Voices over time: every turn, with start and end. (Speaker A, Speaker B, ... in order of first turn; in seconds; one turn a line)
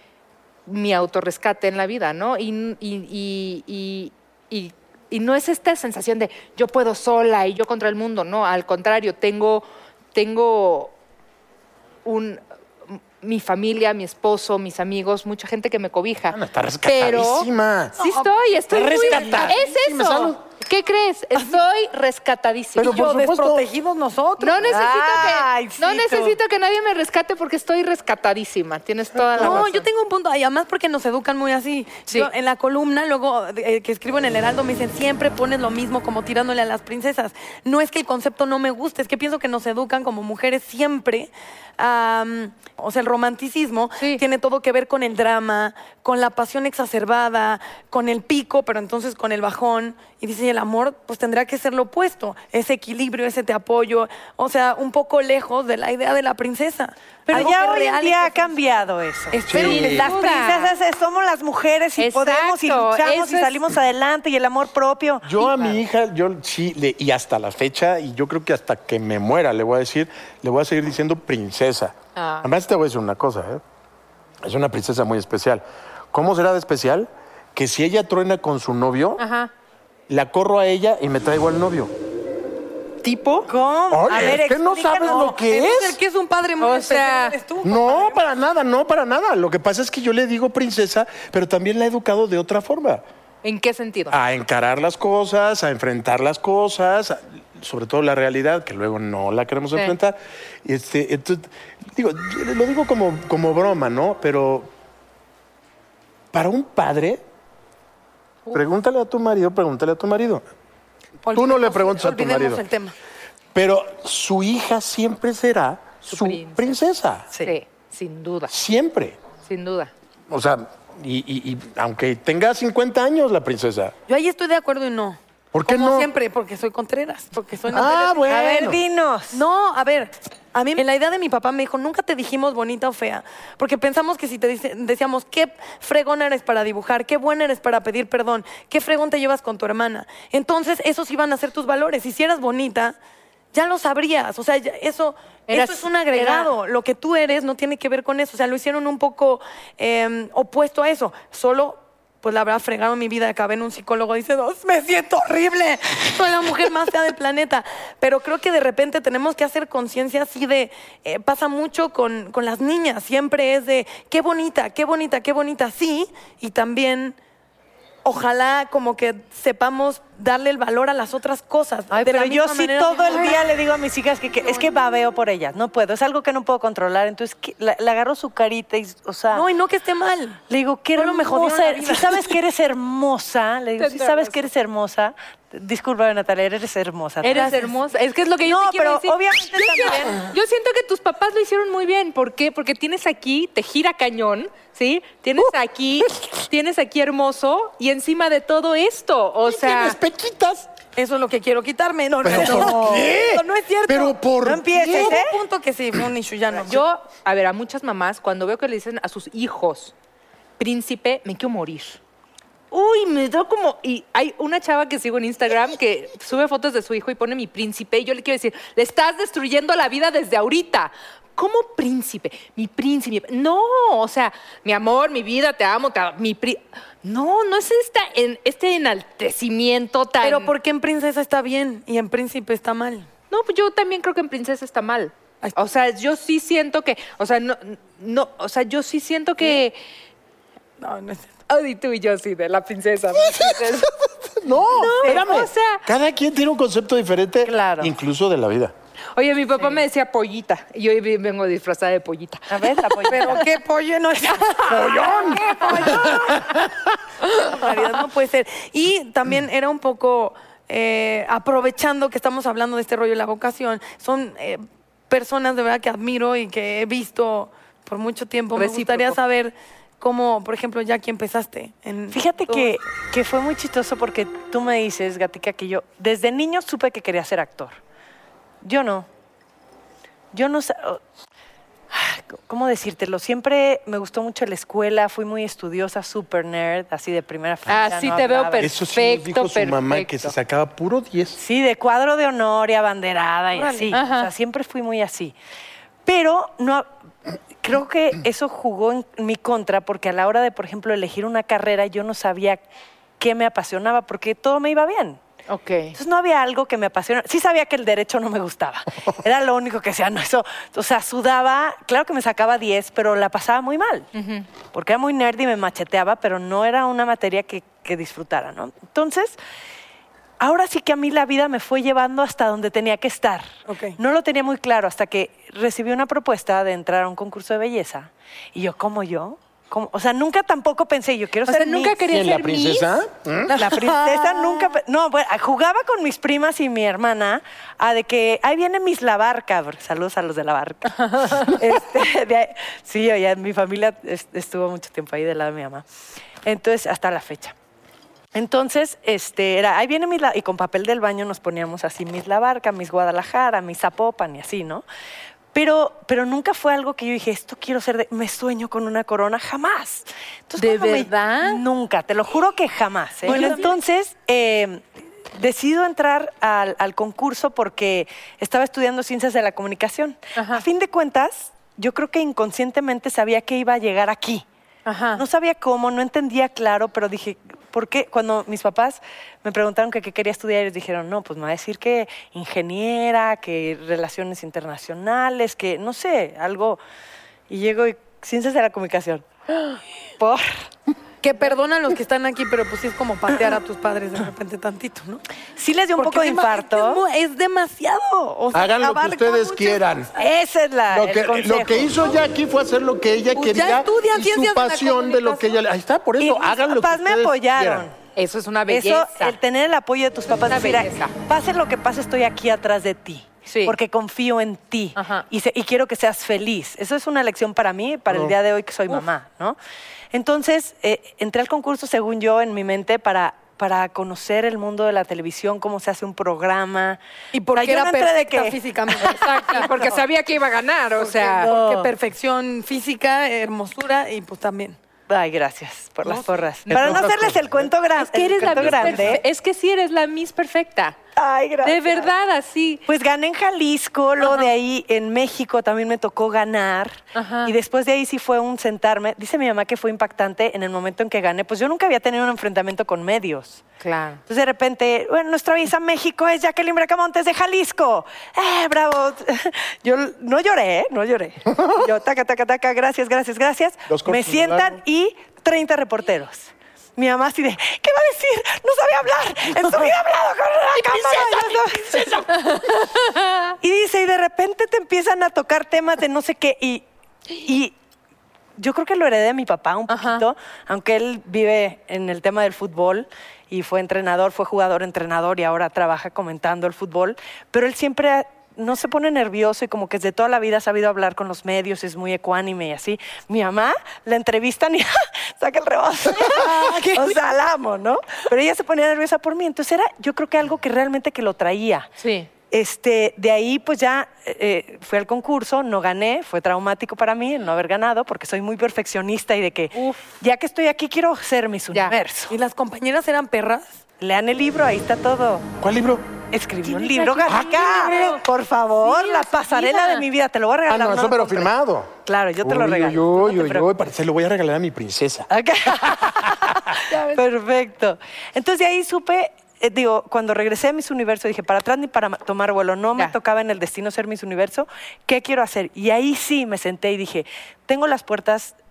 Speaker A: 0.7-10.9
Speaker A: 12.1-23.0
Speaker B: 16.3-18.0
Speaker C: 18.0-19.6
Speaker B: 18.7-20.4
Speaker B: 22.8-23.7
Speaker C: 22.8-24.8
Speaker A: 24.4-29.9
Speaker D: 24.7-26.4
Speaker B: 29.1-29.7
Speaker C: 29.4-60.1
Speaker A: 44.0-44.2
Speaker D: 57.3-65.4
Speaker B: 59.5-60.0
Speaker A: 59.6-60.7
Speaker A: 62.0-63.6
Speaker B: 65.2-73.6
Speaker A: 72.2-72.5
Speaker B: 74.4-79.2
Speaker A: 79.2-79.5
Speaker B: 80.1-81.9
Speaker A: 83.0-83.5
Speaker D: 83.5-85.3
Speaker B: 83.9-86.0
Speaker C: 85.0-88.2
Speaker A: 86.6-87.4
Speaker B: 87.6-93.0
Speaker A: 93.4-94.2
Speaker B: 94.1-104.7
Speaker B: 106.3-107.2
Speaker B: 108.5-110.5
Speaker C: 111.2-113.0
Speaker B: 111.3-112.6
Speaker B: 113.5-117.3
Speaker A: 116.1-116.8
Speaker A: 117.4-118.5
Speaker B: 118.5-119.2
Speaker A: 119.4-119.9
Speaker B: 120.3-124.0
Speaker C: 124.1-128.8
Speaker B: 125.5-126.1
Speaker B: 127.7-128.8
Speaker D: 128.3-129.4
Speaker C: 129.3-143.0
Speaker C: 143.5-167.2
Speaker A: 145.5-146.5
Speaker C: 168.1-173.4
Speaker D: 171.9-179.5
Speaker C: 179.3-180.4
Speaker D: 180.5-187.5
Speaker C: 181.0-182.3
Speaker A: 183.8-184.4
Speaker A: 187.2-200.0
Speaker C: 187.3-187.7
Speaker D: 188.4-190.3
Speaker B: 199.4-200.7
Speaker C: 201.0-204.2
Speaker B: 202.2-205.2
Speaker D: 204.4-205.4
Speaker C: 204.7-206.8
Speaker A: 206.7-209.9
Speaker A: 210.6-212.0
Speaker A: 212.7-230.5
Speaker C: 230.2-233.1
Speaker A: 233.3-239.8
Speaker C: 240.8-241.3
Speaker A: 241.5-243.9
Speaker B: 243.1-248.7
Speaker A: 244.7-245.8
Speaker D: 247.4-247.9
Speaker A: 249.2-253.4
Speaker D: 252.5-253.4
Speaker C: 253.1-256.5
Speaker B: 254.6-256.7
Speaker A: 255.4-256.1
Speaker C: 257.3-272.8
Speaker A: 268.6-269.2
Speaker D: 272.1-277.8
Speaker D: 278.6-279.1
Speaker D: 280.3-281.0
Speaker D: 281.9-288.7
Speaker A: 287.7-290.3
Speaker B: 288.6-291.4
Speaker D: 291.4-295.4
Speaker C: 293.5-294.0
Speaker A: 293.9-294.3
Speaker D: 296.1-296.9
Speaker D: 297.6-302.6
Speaker D: 303.2-305.2
Speaker A: 305.5-306.0
Speaker D: 305.9-314.1
Speaker A: 314.1-314.5
Speaker D: 314.7-319.4
Speaker D: 320.4-332.0
Speaker C: 323.7-324.0
Speaker A: 331.5-332.9
Speaker B: 332.1-333.6
Speaker C: 333.5-334.7
Speaker D: 333.6-345.8
Speaker A: 341.1-341.5
Speaker D: 346.4-347.6
Speaker D: 348.3-354.8
Speaker D: 355.5-364.8
Speaker A: 360.6-361.6
Speaker C: 363.2-363.7
Speaker A: 363.3-363.7
Speaker D: 365.4-374.4
Speaker A: 370.4-370.6
Speaker A: 374.9-375.2
Speaker D: 375.2-386.8
Speaker D: 387.5-389.2
Speaker D: 390.2-390.7
Speaker C: 391.2-395.2
Speaker D: 395.6-397.0
Speaker C: 396.0-399.8
Speaker B: 398.5-400.1
Speaker D: 400.2-402.2
Speaker B: 400.9-407.9
Speaker C: 403.3-405.6
Speaker D: 406.2-408.0
Speaker A: 408.2-409.4
Speaker D: 408.7-419.6
Speaker A: 410.3-411.1
Speaker A: 413.5-413.8
Speaker A: 415.0-415.3
Speaker D: 420.1-427.0
Speaker C: 427.3-429.7
Speaker D: 427.5-429.8
Speaker A: 429.2-431.5
Speaker C: 431.0-434.8
Speaker D: 431.4-431.9
Speaker D: 435.1-439.2
Speaker C: 436.1-436.3
Speaker B: 436.7-437.7
Speaker A: 438.0-441.0
Speaker D: 441.2-442.1
Speaker A: 441.6-442.8
Speaker D: 442.9-453.6
Speaker A: 447.1-447.5
Speaker A: 453.8-454.2
Speaker D: 454.3-472.6
Speaker B: 461.5-461.9
Speaker B: 463.9-464.8
Speaker B: 470.9-472.2
Speaker A: 472.5-473.4
Speaker D: 473.6-476.8
Speaker D: 477.4-477.8
Speaker D: 478.6-501.9
Speaker A: 479.9-480.2
Speaker C: 496.4-496.8
Speaker A: 502.0-502.3
Speaker D: 502.5-512.4
Speaker A: 509.7-510.1
Speaker C: 512.3-513.8
Speaker D: 514.0-515.5
Speaker B: 515.6-516.1
Speaker D: 516.3-521.5
Speaker C: 516.7-518.2
Speaker B: 517.3-517.7
Speaker A: 518.8-520.0
Speaker B: 520.7-525.3
Speaker D: 522.1-523.7
Speaker D: 525.3-538.5
Speaker B: 525.8-526.7